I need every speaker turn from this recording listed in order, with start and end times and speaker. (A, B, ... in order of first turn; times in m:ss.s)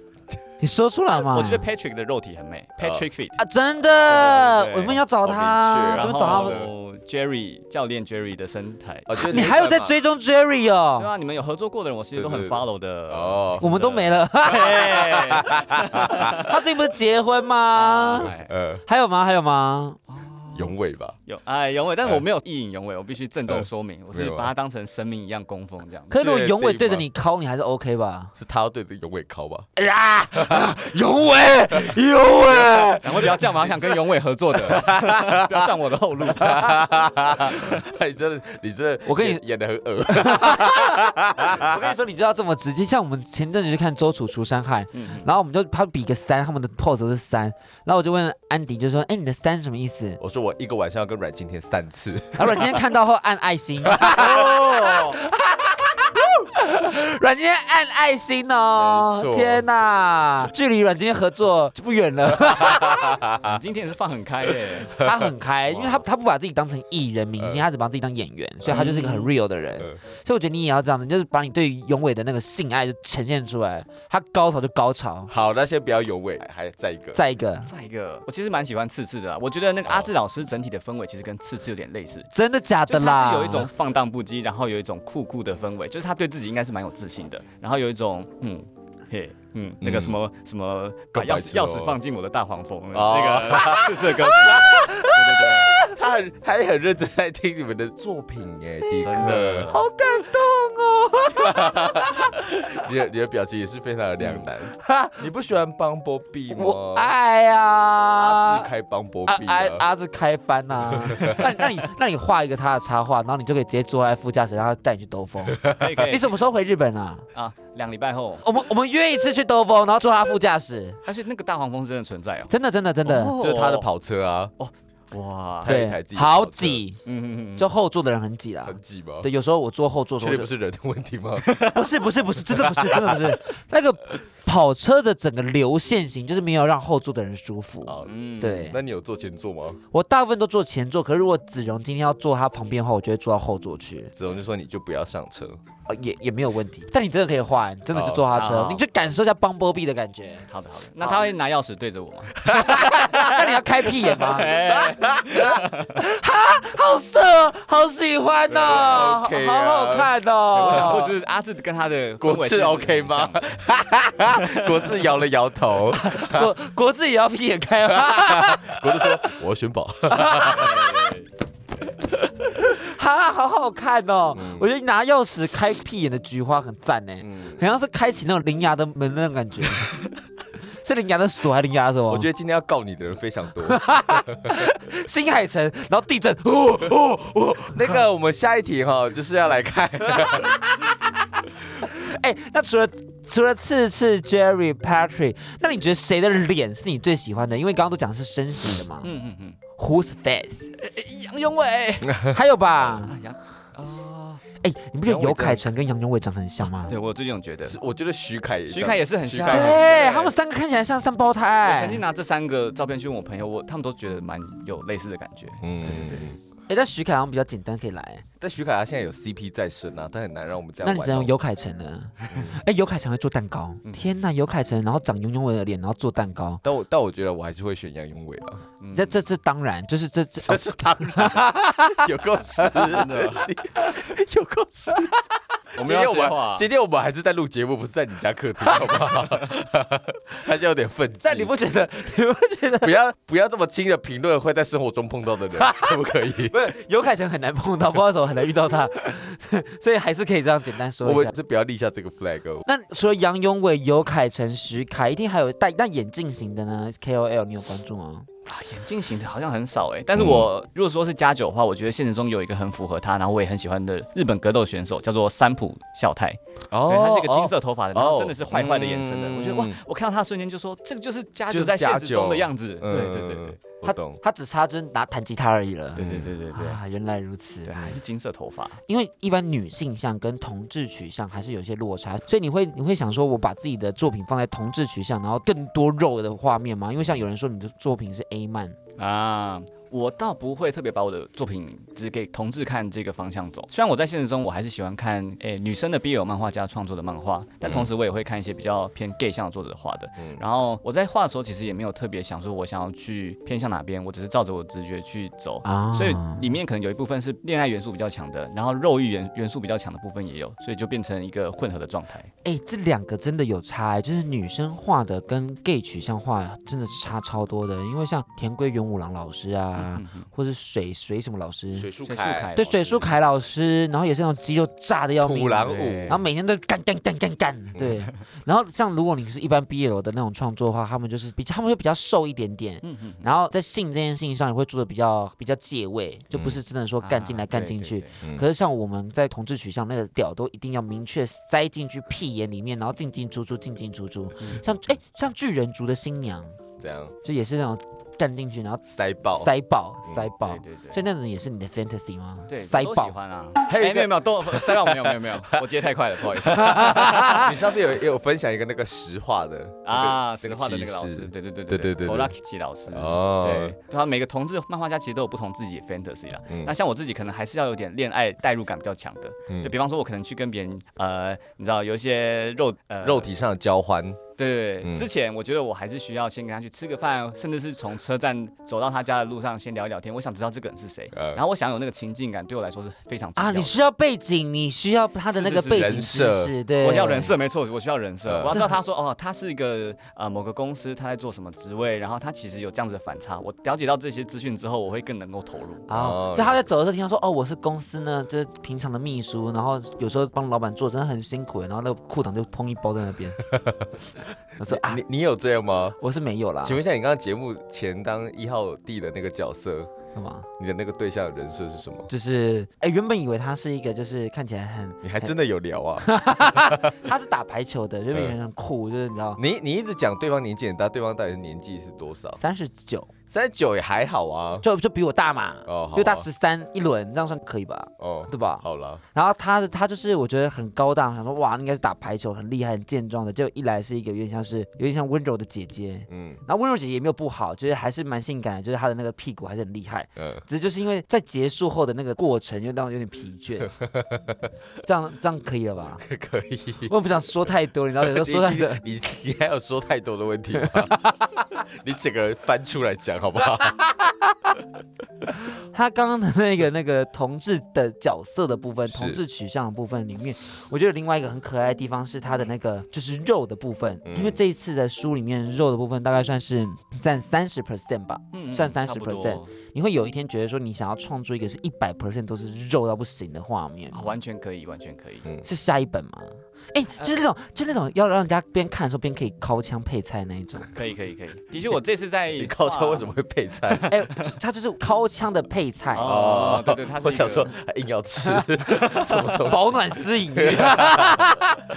0:00.6-0:01.7 A
0:01.2-0:03.4 B
0:03.4-0:06.6 A
0:04.0-0:05.0 B
0:04.1-0:04.5 C
0:05.2-0:06.7 C
0:06.0-0:09.6 B
0:09.1-0:09.9 C
0:09.3-0:11.1 A
0:11.0-0:16.4 B
0:12.2-0:13.6 C
0:13.6-0:14.9 A
0:14.5-0:16.3 C
0:16.3-0:18.3 A
0:17.7-0:18.5 B
0:18.2-0:18.8 C
0:18.9-0:20.0 A
0:20.1-0:20.8 B
0:20.6-0:21.2 C
0:21.3-0:26.3 B
0:23.5-0:24.5 C
0:26.1-0:28.3 A
0:26.2-0:27.1 C
0:28.4-0:29.7 C
0:29.8-0:33.2 A
0:30.4-0:30.7 C
0:33.0-0:36.8 B
0:34.6-0:35.7 C
0:36.2-0:41.8 C
0:39.1-0:39.4 A
0:40.1-0:50.2 A
0:44.9-0:45.3 B
0:50.2-0:52.8 C
0:52.4-1:03.2 A
0:54.0-0:54.2 C
0:54.2-0:55.2 B
0:58.8-0:59.7 C
1:02.4-1:03.6 C
1:03.4-1:05.0 B
1:05.0-1:15.3 A
1:07.4-1:07.6 C
1:08.6-1:09.1 C
1:08.7-1:09.3 B
1:15.3-1:17.2 C
1:17.1-1:17.7 A
1:17.6-1:22.3 B
1:22.3-1:23.7 A
1:22.9-1:35.8 B
1:29.8-1:30.2 C
1:31.1-1:32.0 C
1:32.9-1:39.7 C
1:39.0-1:39.8 B
1:39.7-1:42.3 A
1:41.4-1:47.1 C
1:44.2-1:44.5 B
1:44.8-1:45.2 A
1:46.5-1:48.7 A
1:48.2-1:49.8 C
1:49.3-1:57.3 A
1:50.9-1:51.6 C
1:55.6-1:55.9 C
1:55.8-1:56.4 B
1:57.3-1:58.4 B
1:58.4-2:01.0 A
2:01.1-2:02.5 B
2:02.5-2:03.3 A
2:03.0-2:03.9 B
2:03.4-2:04.5 C
2:04.6-2:05.7 B
2:05.6-2:06.8 C
2:05.7-2:07.0 A
2:07.0-2:07.7 B
2:07.6-2:10.5 A
2:08.7-2:09.3 C
2:10.2-2:11.6 C
2:11.4-2:11.7 B
2:11.7-2:18.8 A
2:12.5-2:13.4 C
2:17.8-2:19.8 C
2:18.1-2:18.6 B
2:19.9-2:24.1 A
2:24.2-2:25.6 C
2:25.9-2:30.5 A
2:27.9-2:28.3 C
2:28.3-2:28.8 B
2:30.5-2:36.0 B
2:31.0-2:31.3 A
2:32.5-2:34.8 A
2:32.5-2:32.8 C
2:35.0-2:35.5 C
2:35.4-2:41.1 A
2:38.5-2:40.1 C
2:40.6-2:43.5 B
2:40.7-2:41.1 C
2:42.2-2:46.5 C
2:44.6-2:44.8 B
2:45.9-2:49.3 A
2:47.9-2:51.0 C
2:50.1-2:50.8 A
2:50.5-2:51.3 B
2:52.4-2:59.9 A
2:54.3-2:54.7 C
2:57.2-2:57.6 C
3:00.8-3:02.3 A
3:02.1-3:04.4 C
3:03.6-3:07.9 A
3:07.6-3:10.6 C
3:10.1-3:10.8 A
3:11.8-3:19.1 A
3:19.0-3:19.6 B
3:19.8-3:20.7 A
3:20.8-3:24.4 B
3:22.3-3:23.1 A
3:24.6-3:27.0 A
3:25.0-3:25.6 B
3:26.6-3:27.8 B
3:27.6-3:29.9 C
3:28.7-3:30.3 B
3:29.5-3:32.0 A
3:31.6-3:36.3 B
3:35.6-3:36.4 C
3:36.7-3:38.2 A
3:38.4-3:41.3 C
3:40.8-3:46.6 A
3:42.3-3:42.6 C
3:46.6-3:48.6 C
3:48.8-3:49.2 B
3:48.9-3:52.0 A
3:50.4-3:55.1 C
3:52.6-3:53.0 A
3:52.7-3:53.5 B
3:55.8-3:56.7 B
3:55.8-4:01.5 C
4:01.2-4:03.0 A
4:02.8-4:06.6 C
4:05.6-4:11.3 A
4:11.0-4:12.7 C
4:12.6-4:18.3 A
4:18.5-4:33.6 B
4:20.2-4:20.5 C
4:26.7-4:29.8 C
4:31.5-4:34.2 C
4:33.9-4:38.0 A
4:36.0-4:36.8 B
4:36.0-4:36.3 C
4:37.6-4:38.8 B
4:38.9-4:48.8 A
4:49.0-5:12.3 B
4:57.6-4:57.9 C
5:00.2-5:00.4 C
5:05.6-5:06.5 A
5:12.4-5:21.9 A
5:19.8-5:20.3 B
5:21.8-5:22.5 C
5:22.0-5:23.2 B
5:22.6-5:46.6 A
5:25.2-5:26.2 C
5:25.6-5:26.2 B
5:27.8-5:28.1 C
5:32.8-5:33.3 B
5:36.3-5:36.6 C
5:37.0-5:38.1 B
5:46.8-5:47.2 C
5:47.2-5:53.2 A
5:48.9-5:49.5 C
5:50.1-5:50.3 C
5:50.4-5:51.0 B
5:52.5-5:57.5 B
5:53.7-5:55.2 C
5:56.6-5:57.5 A
5:56.7-6:02.3 C
5:59.8-6:13.3 B
6:02.9-6:03.8 C
6:06.5-6:06.7 C
6:13.0-6:14.2 C
6:14.4-6:23.8 B
6:14.8-6:15.1 C
6:21.1-6:21.4 C
6:23.4-6:27.4 A
6:25.3-6:25.9 B
6:25.7-6:26.5 C
6:26.8-6:35.9 B
6:28.3-6:28.6 C
6:28.5-6:28.8 A
6:35.9-6:43.4 A
6:35.9-6:36.6 C
6:43.5-6:43.9 C
6:44.6-6:45.0 A
6:44.6-6:46.0 C
6:46.0-6:46.8 A
6:46.6-6:49.9 C
6:50.2-6:50.5 A
6:50.6-6:52.1 C
6:52.1-6:55.3 A
6:55.0-6:56.9 C
6:56.0-6:59.4 A
6:59.4-7:02.4 C
7:02.4-7:03.1 A
7:03.3-7:04.6 C
7:04.6-7:23.7 A
7:05.7-7:06.3 C
7:08.0-7:09.0 C
7:16.1-7:16.4 C
7:20.2-7:20.4 C
7:23.6-7:24.5 C
7:24.8-7:26.0 A
7:26.0-7:33.9 C
7:26.9-7:28.8 A
7:35.7-7:54.1 A
7:38.9-7:39.2 C
7:44.0-7:44.4 C
7:48.3-7:49.5 B
7:53.9-7:55.3 B
7:55.4-8:00.7 A
8:00.7-8:03.1 B
8:02.3-8:03.9 C
8:03.7-8:04.2 B
8:03.9-8:06.1 A
8:05.9-8:07.5 B
8:06.0-8:11.4 C
8:08.9-8:09.4 B
8:09.4-8:11.6 A